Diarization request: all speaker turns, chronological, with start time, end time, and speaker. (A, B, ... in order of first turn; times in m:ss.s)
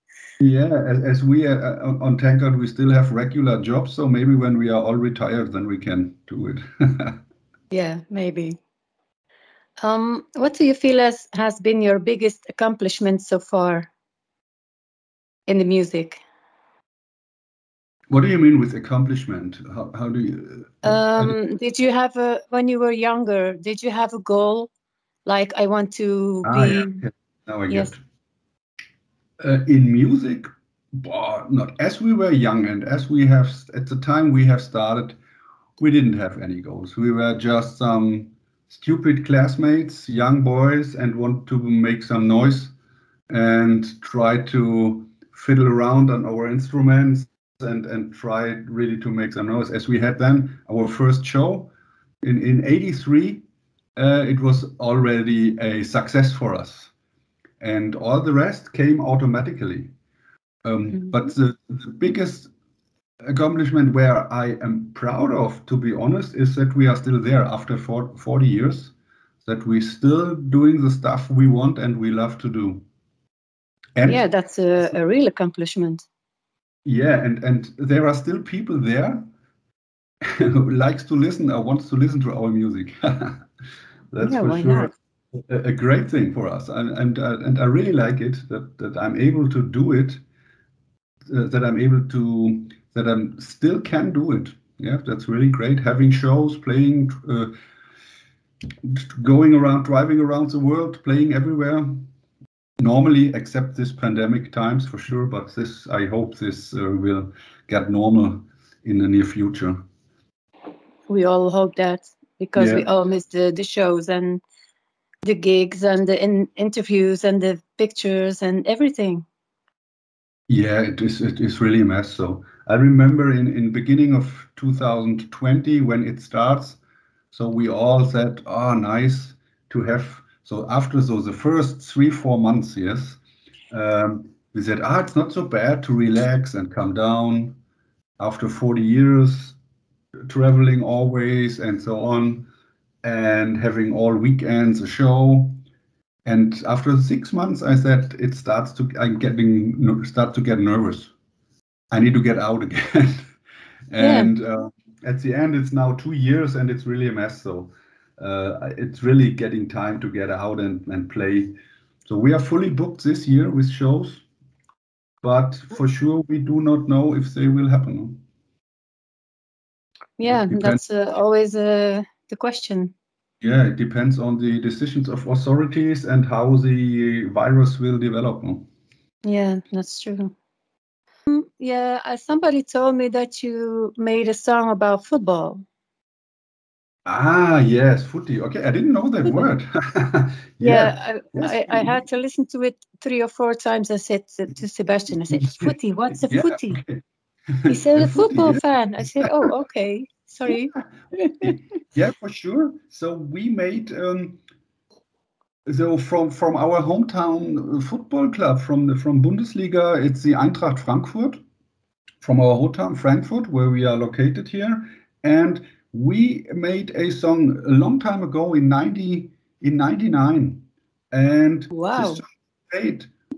0:00.4-0:07.2 A
0:07.7-0:08.6 B
0:09.8-0:13.9 B
0:15.5-0:16.2 B
0:18.1-0:21.4 A
0:20.8-0:24.7 B
0:25.2-0:27.0 B
0:26.4-0:28.0 A
0:29.4-0:35.2 A
0:35.8-0:42.7 A
0:43.3-0:53.4 A
0:54.0-0:56.9 A
0:57.6-0:59.9 A
1:00.6-1:02.5 A
1:03.2-1:12.8 A
1:13.9-1:14.2 A
1:14.0-1:16.0 B
1:16.8-1:19.2 A
1:20.2-1:23.4 A
1:24.1-1:24.9 A
1:24.2-1:24.9 B
1:25.5-1:30.2 A
1:31.3-1:37.5 A
1:38.8-1:42.0 A
1:42.8-1:49.8 A
1:51.1-1:54.4 B
1:52.5-1:52.8 A
1:55.2-1:59.2 B
2:00.5-2:06.8 A
2:07.3-2:13.2 A
2:13.7-2:17.6 A
2:18.2-2:19.6 A
2:20.3-2:22.5 A
2:23.0-2:25.6 A
2:26.2-2:31.1 A
2:31.9-2:33.3 A
2:33.9-2:41.5 A
2:34.0-2:34.3 B
2:42.0-2:44.2 A
2:45.2-2:48.2 A
2:50.2-2:52.9 B
2:50.2-2:50.8 A
2:53.4-2:58.7 A
2:59.2-3:00.3 B
3:01.3-3:05.6 B
3:07.0-3:12.0 A
3:10.6-3:16.8 B
3:15.3-3:19.5 A
3:17.6-3:21.5 B
3:21.4-3:24.4 A
3:25.7-3:31.4 A
3:32.2-3:43.1 A
3:41.7-3:42.2 B